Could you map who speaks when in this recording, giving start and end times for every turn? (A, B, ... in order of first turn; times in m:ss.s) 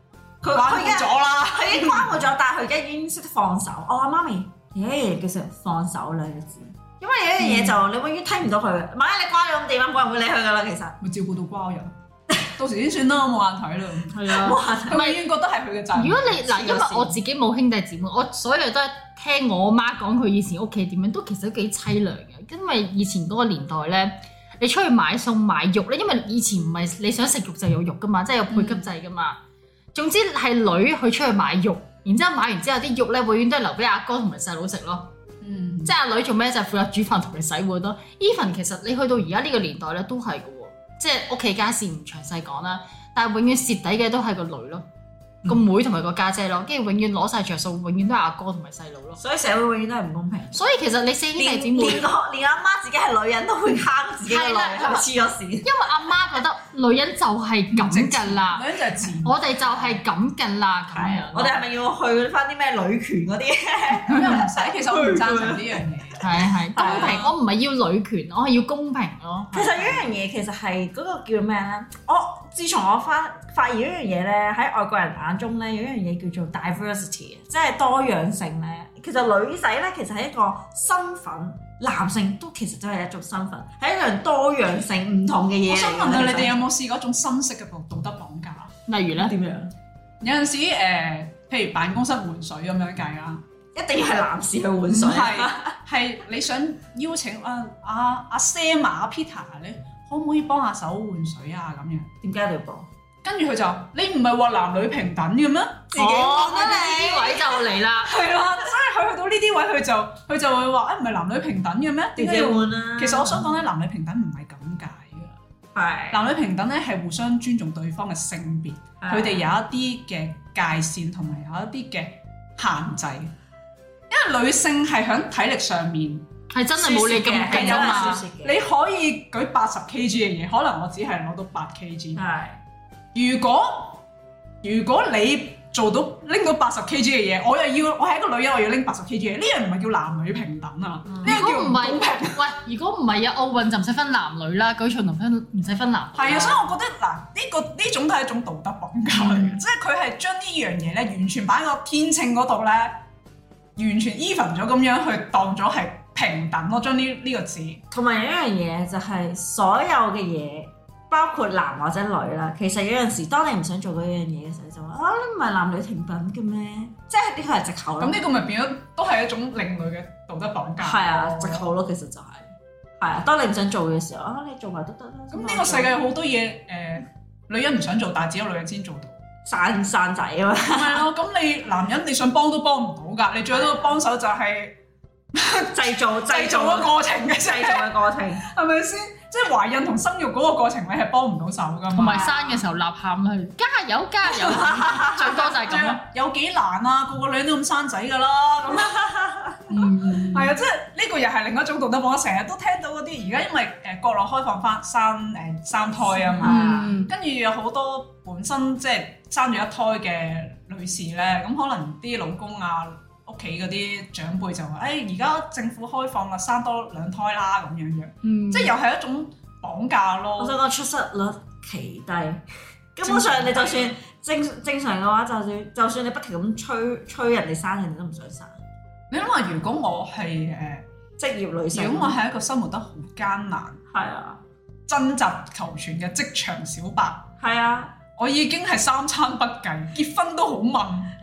0:00.4-0:11.0 A
0:00.5-0:02.3 B
0:07.4-0:07.7 C
0:11.0-0:16.4 B
0:14.1-0:15.2 C
0:14.3-0:15.1 A
0:15.9-0:29.4 C
0:16.4-0:17.2 A
0:28.5-0:28.8 B
0:29.9-0:35.1 C
0:35.4-0:35.9 B
0:35.8-0:44.8 C
0:45.4-0:49.2 C
0:49.2-0:50.6 A
0:50.5-0:52.1 C
0:51.4-0:55.7 A
0:54.2-0:55.1 C
0:55.6-0:58.6 C
0:57.7-0:59.5 B
0:59.2-1:01.6 C
1:00.9-1:07.3 A
1:04.0-1:07.3 B
1:06.2-1:10.1 C
1:09.5-1:26.5 A
1:25.7-1:28.7 B
1:28.9-1:29.3 C
1:29.2-1:29.7 A
1:30.2-1:33.4 B
1:33.7-1:35.7 A
1:34.9-1:42.1 B
1:42.2-1:42.9 A
1:43.2-1:46.5 B
1:45.9-1:47.8 A
1:46.2-1:48.1 C
1:48.1-1:55.4 B
1:52.2-1:53.5 A
1:55.7-1:56.3 A
1:56.1-2:03.3 B
1:59.0-1:59.5 A
2:04.1-2:06.3 B
2:06.5-2:08.2 C
2:06.8-2:08.6 A
2:07.2-2:12.2 B
2:12.2-2:12.6 A
2:13.1-2:14.0 B
2:14.6-2:22.4 B
2:21.1-2:21.4 A
2:21.2-2:26.6 C
2:26.2-2:33.0 B
2:29.2-2:29.5 C
2:33.8-2:37.8 B
2:37.9-2:48.2 A
2:48.0-2:51.7 B
2:50.8-2:56.0 A
2:55.3-2:59.2 B
2:59.5-3:01.1 A
3:00.7-3:04.8 B
3:03.5-3:03.9 A
3:05.3-3:12.3 B
3:05.7-3:08.4 A
3:11.9-3:16.0 C
3:12.0-3:12.6 A
3:14.5-3:19.1 B
3:18.8-3:19.6 A
3:19.7-3:20.5 C
3:20.2-3:40.6 B
3:26.2-3:27.0 A
3:26.4-3:27.1 C
3:38.2-3:38.7 C
3:40.4-3:42.4 A
3:42.9-3:48.6 A
3:43.0-3:44.0 B
3:49.1-3:50.8 B
3:51.2-3:52.2 A
3:51.7-3:53.8 B
3:53.9-3:54.4 A
3:54.9-3:57.3 B
3:57.4-3:58.0 A
3:58.2-4:01.1 B